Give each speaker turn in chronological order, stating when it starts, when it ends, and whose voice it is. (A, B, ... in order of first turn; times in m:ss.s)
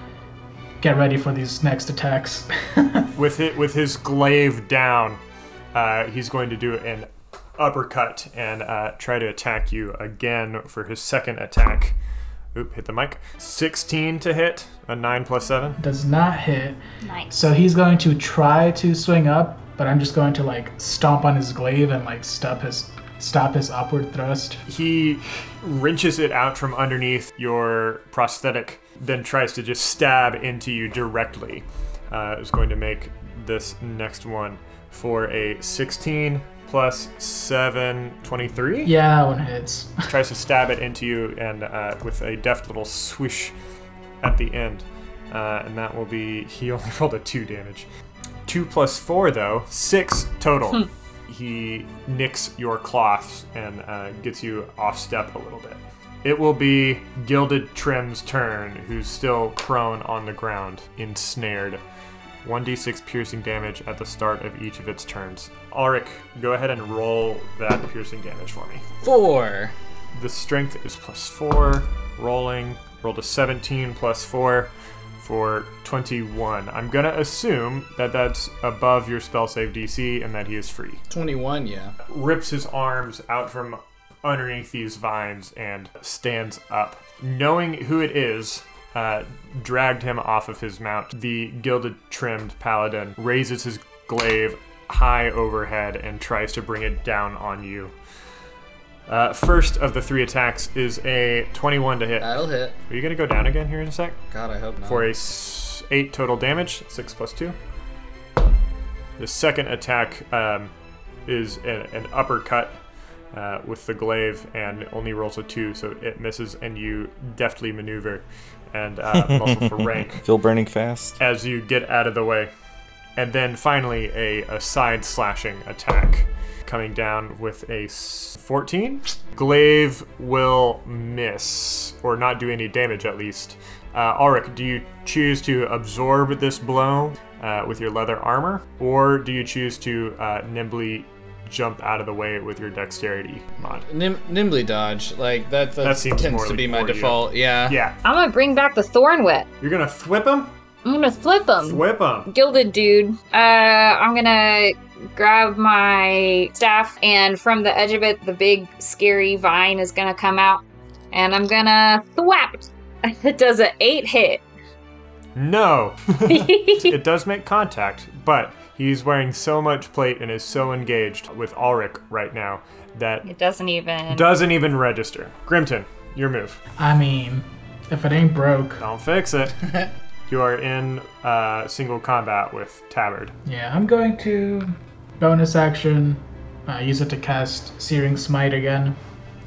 0:00.8-0:03.1 A
0:03.2-0:05.2 B
0:05.7-0:12.0 B
0:12.5-0:15.8 B
0:15.8-0:24.6 A
0:17.0-0:17.4 C
0:24.7-0:38.9 B
0:38.8-0:40.0 A
0:40.1-0:43.5 B
0:44.2-0:47.9 B
0:48.5-1:01.8 B
1:02.4-1:08.8 B
1:09.0-1:09.7 D
1:10.2-1:21.0 B
1:21.1-1:22.0 D
1:22.1-1:37.9 B
1:39.1-1:44.2 B
1:42.2-1:42.8 D
1:44.3-1:45.1 D
1:44.9-1:47.6 B
1:49.2-1:50.7 B
1:51.3-1:52.8 B
1:53.3-2:00.2 B
1:59.1-2:01.2 E
2:01.2-2:02.5 B
2:03.2-2:23.9 B
2:23.9-2:27.8 D
2:25.8-2:28.0 B
2:28.0-2:29.5 C
2:29.6-2:30.5 B
2:30.8-2:44.4 C
2:31.6-2:32.3 B
2:45.4-2:53.2 B
2:46.3-2:46.9 C
2:53.2-2:54.4 C
2:54.1-2:56.6 B
2:56.8-2:58.8 A
2:58.8-3:03.3 B
3:03.5-3:09.0 A